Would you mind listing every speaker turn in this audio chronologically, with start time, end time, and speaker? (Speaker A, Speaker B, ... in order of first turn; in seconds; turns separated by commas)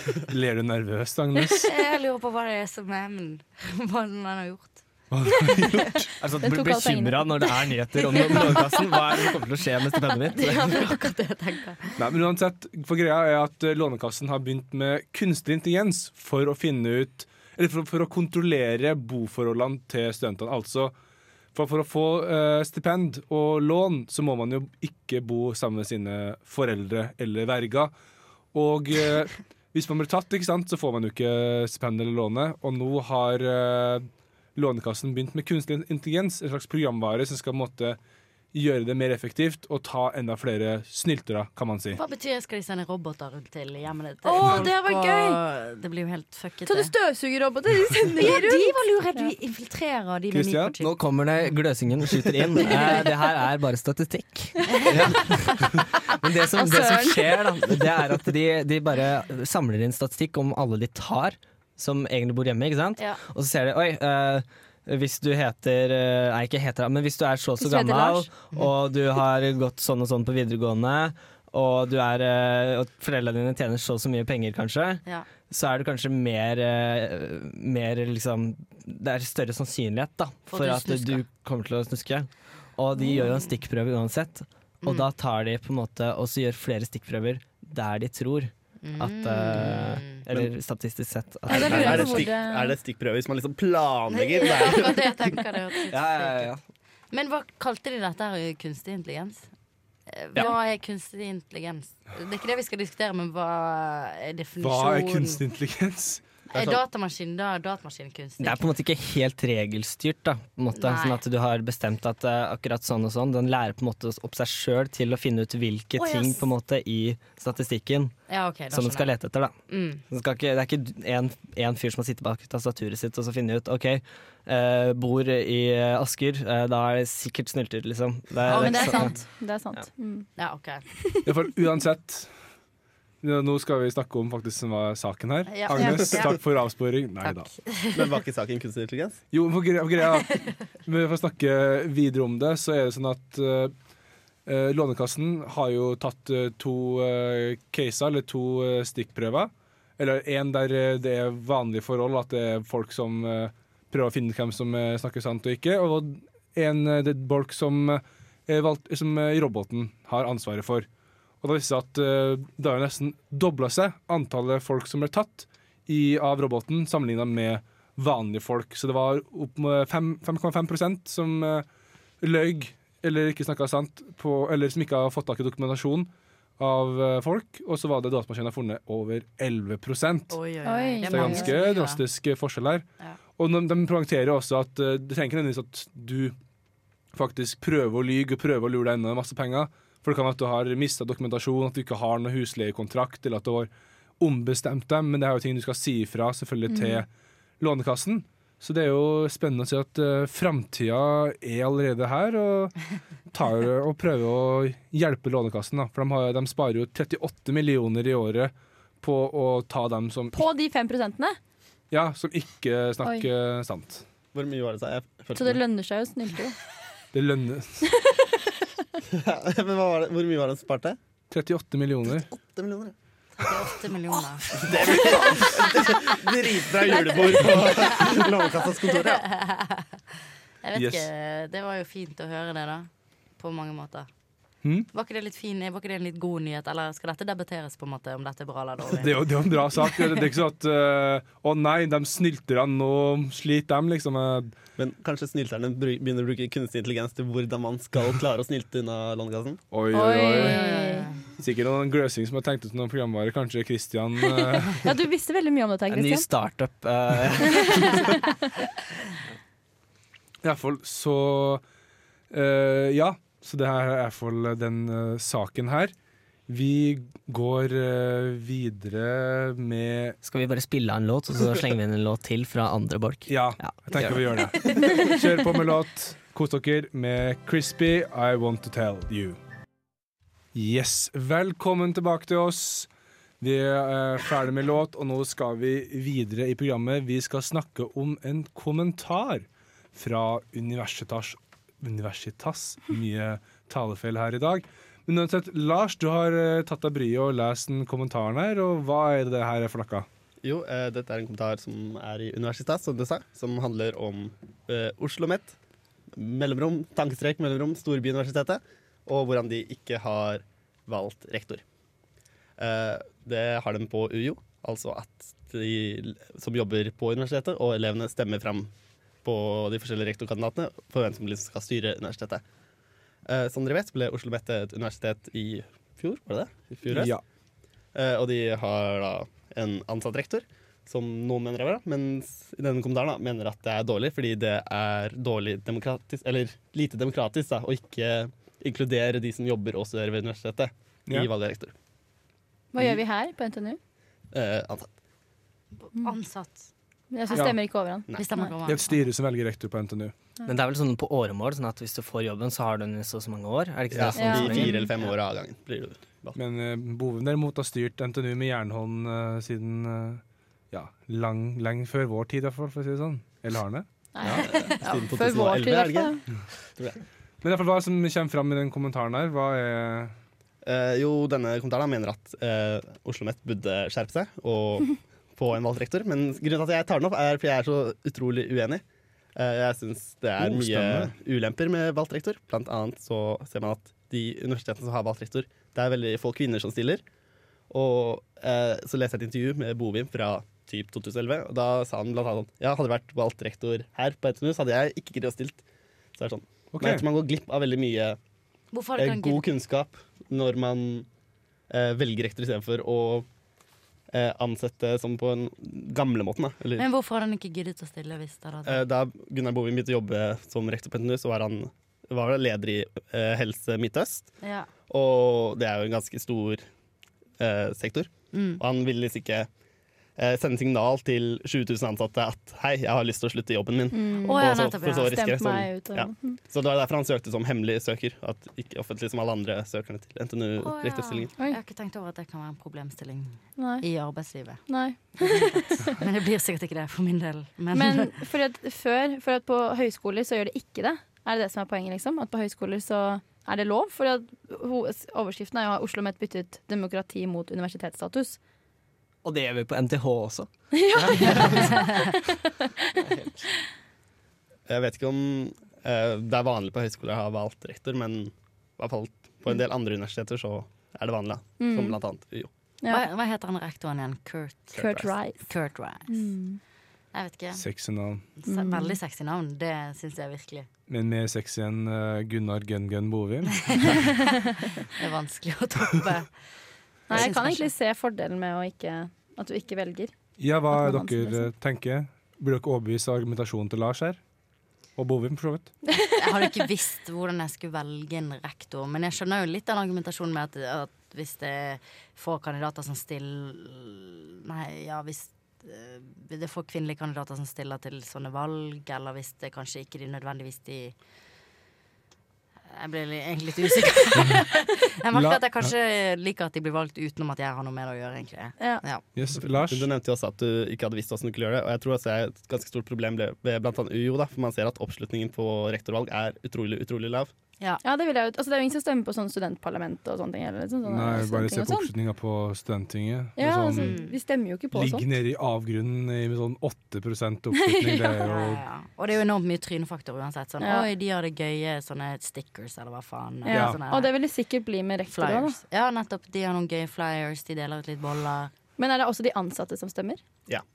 Speaker A: 0.2-1.7, Speaker B: 1.6-4.8, Speaker A: 5.1-6.1, Speaker C: 5.3-5.6, Speaker D: 6.2-10.9, Speaker C: 6.4-7.3, Speaker B: 8.0-9.4, Speaker B: 10.1-12.0, Speaker A: 12.0-20.9, Speaker A: 21.5-27.9, Speaker A: 28.5-38.0, Speaker A: 38.5-42.0, Speaker B: 41.9-46.9, Speaker C: 44.2-45.4, Speaker C: 46.6-49.3, Speaker B: 48.1-50.9, Speaker A: 50.3-50.8, Speaker D: 50.8-92.3, Speaker B: 52.6-53.0, Speaker C: 54.7-54.9, Speaker B: 54.7-55.0, Speaker C: 56.5-57.8, Speaker C: 67.6-68.3, Speaker B: 80.5-81.2, Speaker B: 83.0-83.5, Speaker B: 84.8-85.1, Speaker B: 88.8-90.2, Speaker C: 91.5-92.7, Speaker E: 91.5-95.3, Speaker B: 94.1-96.5, Speaker D: 95.9-96.6, Speaker B: 97.1-99.5, Speaker B: 100.1-105.4, Speaker A: 104.6-106.2, Speaker B: 106.5-108.7, Speaker D: 108.4-118.1, Speaker B: 110.7-111.2, Speaker B: 116.0-116.5, Speaker B: 118.3-119.1, Speaker D: 118.7-119.5, Speaker B: 119.7-120.0, Speaker D: 120.1-129.1, Speaker B: 128.4-129.1, Speaker C: 128.5-130.3, Speaker B: 130.4-130.8, Speaker C: 131.0-131.3, Speaker A: 131.2-132.3, Speaker A: 133.2-137.5, Speaker B: 135.5-136.4, Speaker B: 137.2-138.2, Speaker E: 137.9-139.2, Speaker A: 139.3-143.7, Speaker A: 144.4-160.9, Speaker A: 161.4-171.7, Speaker A: 172.2-180.3, Speaker B: 180.3-182.0, Speaker C: 180.6-181.6, Speaker A: 181.1-182.8, Speaker A: 183.3-186.3, Speaker A: 187.1-197.1, Speaker C: 196.7-197.0, Speaker A: 197.6-210.4, Speaker C: 210.3-211.4, Speaker A: 211.9-214.0, Speaker E: 214.3-215.6, Speaker C: 215.3-216.6, Speaker A: 217.1-217.9, Speaker C: 217.8-218.5, Speaker E: 219.1-221.0, Speaker A: 221.3-222.3, Speaker E: 222.0-222.9, Speaker B: 223.4-224.6, Speaker A: 224.6-225.5, Speaker E: 224.6-229.2, Speaker B: 227.5-228.4, Speaker B: 228.9-230.0, Speaker B: 230.6-234.1, Speaker A: 230.7-231.1, Speaker B: 234.9-239.8, Speaker A: 238.9-244.5, Speaker E: 244.8-249.6, Speaker A: 249.7-250.6, Speaker C: 249.9-251.1, Speaker B: 250.4-251.2, Speaker A: 251.4-254.9, Speaker C: 254.2-256.3, Speaker D: 255.9-258.2, Speaker C: 257.5-258.2, Speaker A: 260.4-261.6, Speaker A: 262.3-265.9, Speaker A: 266.5-270.2, Speaker D: 270.2-274.5, Speaker A: 273.3-279.4, Speaker A: 280.5-282.9, Speaker A: 283.4-300.1, Speaker E: 300.4-305.6, Speaker E: 306.1-311.6, Speaker E: 312.6-318.7, Speaker E: 319.2-322.4, Speaker E: 323.2-327.1, Speaker A: 326.9-327.2, Speaker E: 327.9-341.7, Speaker C: 342.7-343.8, Speaker E: 344.3-344.9, Speaker B: 345.8-346.7, Speaker C: 347.1-348.5, Speaker A: 347.3-347.6, Speaker B: 348.1-349.0, Speaker A: 348.6-350.1, Speaker D: 350.4-354.9, Speaker E: 353.9-356.4, Speaker C: 354.1-354.9, Speaker A: 356.4-364.4, Speaker C: 364.1-366.2, Speaker E: 364.3-366.2, Speaker A: 367.4-370.1, Speaker E: 370.6-378.8, Speaker E: 379.3-387.0, Speaker A: 380.4-381.1, Speaker E: 387.7-395.6, Speaker E: 396.1-398.2, Speaker A: 396.7-397.0, Speaker B: 398.7-399.4, Speaker E: 398.9-401.1, Speaker E: 401.7-403.3, Speaker E: 404.1-406.9, Speaker B: 406.8-408.8, Speaker E: 408.6-414.3, Speaker B: 414.4-414.7, Speaker E: 414.9-416.6, Speaker E: 417.4-419.5, Speaker B: 418.3-418.6, Speaker E: 420.2-431.3, Speaker C: 423.9-426.4, Speaker B: 424.2-425.2, Speaker B: 430.6-434.6, Speaker C: 433.6-433.8, Speaker C: 434.7-436.0, Speaker B: 435.2-438.1, Speaker C: 437.7-448.4, Speaker D: 449.2-452.1, Speaker C: 450.7-452.9, Speaker D: 453.0-453.4, Speaker E: 454.7-462.5, Speaker C: 461.6-462.0, Speaker C: 462.8-463.1, Speaker B: 462.9-466.3, Speaker C: 464.7-465.4, Speaker C: 466.1-466.6, Speaker B: 467.1-467.6, Speaker A: 467.5-468.3, Speaker B: 468.4-470.7, Speaker C: 468.5-469.0, Speaker A: 470.9-474.1, Speaker B: 473.6-473.9, Speaker C: 473.8-474.7, Speaker B: 474.9-476.3, Speaker C: 477.1-480.1, Speaker B: 477.1-477.7, Speaker A: 480.4-484.2, Speaker C: 480.7-481.5, Speaker A: 485.0-485.7, Speaker C: 485.9-486.4, Speaker B: 486.1-500.9, Speaker B: 502.7-509.0, Speaker A: 505.1-505.7, Speaker A: 509.1-509.9, Speaker E: 509.4-517.3, Speaker C: 517.8-521.9, Speaker A: 520.8-523.9, Speaker C: 523.4-525.1, Speaker B: 523.8-524.1, Speaker A: 524.7-528.6, Speaker C: 527.6-528.2, Speaker B: 528.2-534.1, Speaker C: 530.6-530.9, Speaker C: 533.4-535.6, Speaker A: 533.5-533.8, Speaker B: 535.1-538.5, Speaker C: 538.8-540.2